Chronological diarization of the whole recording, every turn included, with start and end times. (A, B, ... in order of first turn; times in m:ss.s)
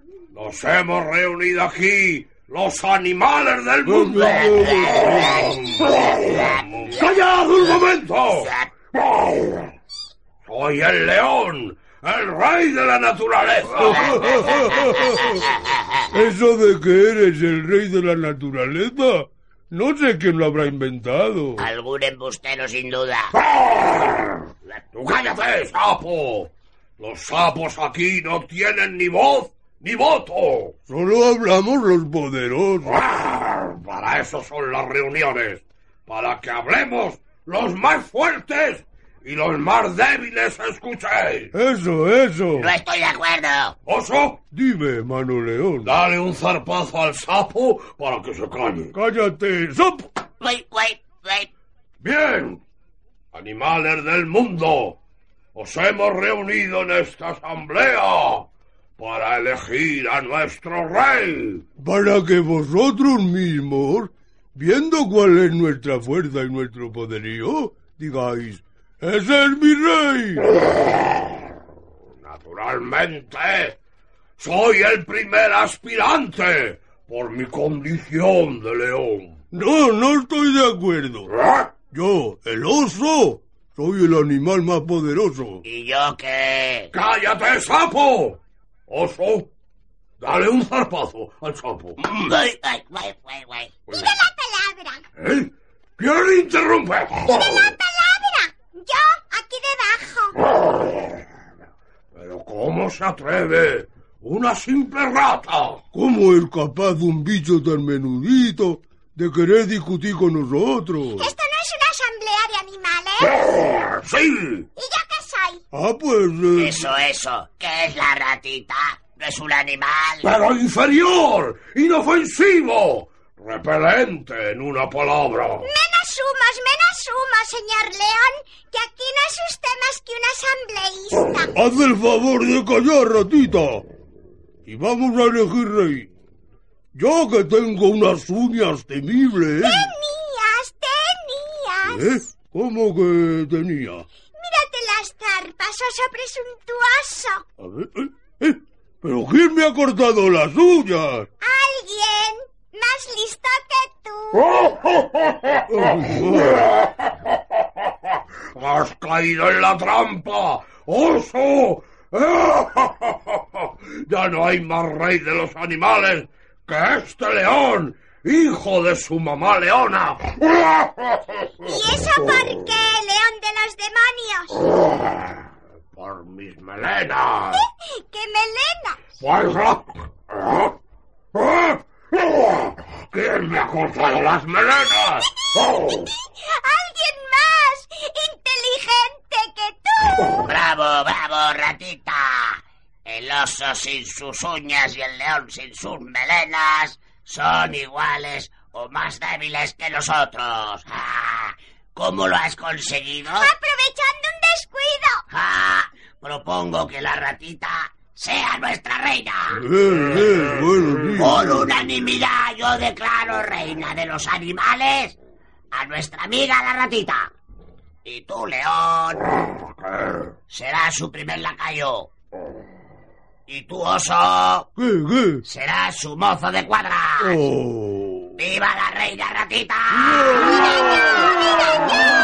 0:00.3-0:09.7 A
0:03.9-0:05.5 B
0:04.1-0:07.0 C
0:08.4-0:08.7 C
0:10.4-0:15.2 A
0:13.8-0:15.4 B
0:13.8-0:16.1 C
0:16.1-0:21.7 B
0:21.6-0:23.3 C
0:23.6-0:24.3 A
0:24.9-0:30.8 A
0:30.9-0:33.0 B
0:32.8-0:41.5 A
0:41.5-0:42.7 B
0:42.6-0:43.8 C
0:43.9-0:44.4 A
0:44.5-0:46.0 B
0:45.8-0:48.9 A
0:48.9-0:50.1 B
0:50.4-0:51.5 C
0:52.0-0:52.6 A
0:53.3-0:55.0 A
0:55.6-0:58.5 A
0:59.0-1:01.6 A
1:01.8-1:10.6 B
1:12.2-1:13.8 A
1:14.4-1:19.4 A
1:19.5-1:21.3 B
1:21.3-1:21.7 A
1:21.9-1:25.6 B
1:25.6-1:26.9 C
1:26.9-1:29.5 A
1:30.2-1:32.2 A
1:32.1-1:33.7 C
1:33.9-1:35.0 D
1:35.2-1:37.8 A
1:37.2-1:40.4 D
1:40.6-1:41.0 A
1:42.1-1:45.8 A
1:45.9-1:51.3 B
1:51.2-1:53.4 D
1:53.2-1:54.7 A
1:54.8-1:55.6 D
1:55.7-1:56.8 B
1:56.6-2:00.3 C
2:00.2-2:05.7 A
2:05.6-2:11.6 D
2:11.6-2:13.8 B
2:14.7-2:16.1 B
2:17.0-2:19.9 B
2:19.6-2:22.1 D
2:21.9-2:24.1 B
2:24.4-2:27.4 D
2:27.6-2:31.3 B
2:31.4-2:34.6 D
2:35.7-2:36.5 B
2:38.4-2:51.7 A
2:51.6-2:54.7 D
2:55.9-2:57.6 A
2:57.5-2:59.1 D
2:59.2-3:00.7 A
3:01.3-3:06.1 A
3:05.6-3:10.4 D
3:10.3-3:23.5 C
3:23.3-3:25.2 D
3:25.3-3:29.6 C
3:29.6-3:31.7 B
3:31.1-3:35.2 C
3:35.7-3:37.3 C
3:38.0-3:39.4 C
3:39.6-3:40.2 A
3:40.5-3:42.1 C
3:43.5-3:44.7 C
3:44.8-3:45.4 B
3:45.4-3:47.5 C
3:47.2-3:48.4 B
3:48.4-3:50.8 C
3:50.1-3:50.3 B
3:50.4-3:51.9 D